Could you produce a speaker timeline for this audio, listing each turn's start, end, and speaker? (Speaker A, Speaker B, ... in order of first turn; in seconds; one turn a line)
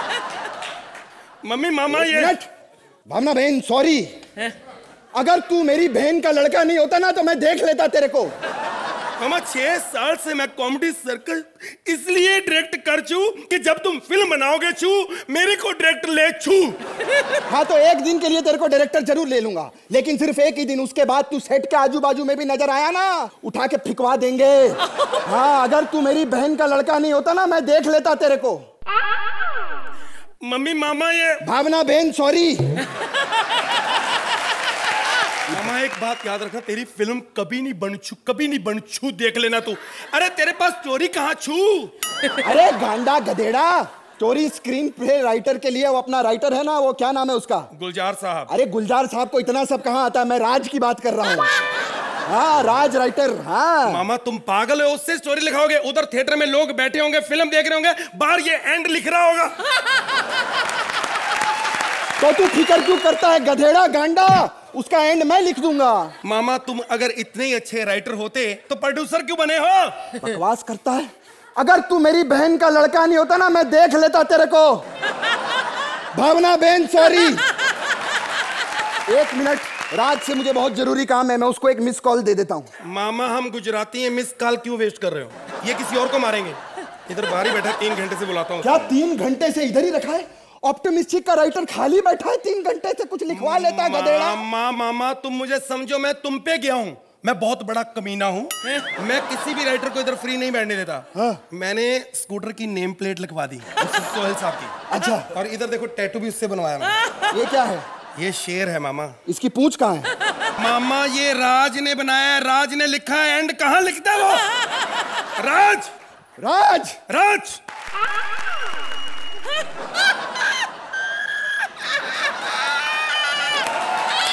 Speaker A: 1.4-2.4
Speaker B: 2.0-2.5
Speaker B: 3.1-4.1
Speaker B: 5.1-8.3
Speaker A: 9.2-16.8
Speaker B: 17.5-28.6
Speaker A: 30.4-31.4
Speaker B: 31.4-32.8
Speaker A: 35.5-41.9
Speaker B: 42.4-47.7
Speaker A: 47.7-48.5
Speaker B: 48.5-51.5
Speaker B: 52.3-54.0
Speaker A: 53.9-59.5
Speaker B: 62.2-66.1
Speaker A: 66.2-70.1
Speaker B: 70.2-74.8
Speaker B: 76.1-77.4
Speaker B: 79.1-82.7
Speaker A: 82.8-88.9
Speaker B: 88.6-94.4
Speaker A: 93.3-107.0
Speaker B: 101.1-101.4
Speaker B: 104.9-105.3
Speaker B: 107.3-107.9
Speaker A: 108.2-109.1
Speaker B: 109.2-110.1
Speaker A: 110.6-114.5
Speaker A: 115.4-115.9
Speaker B: 116.4-117.0
Speaker A: 117.1-117.6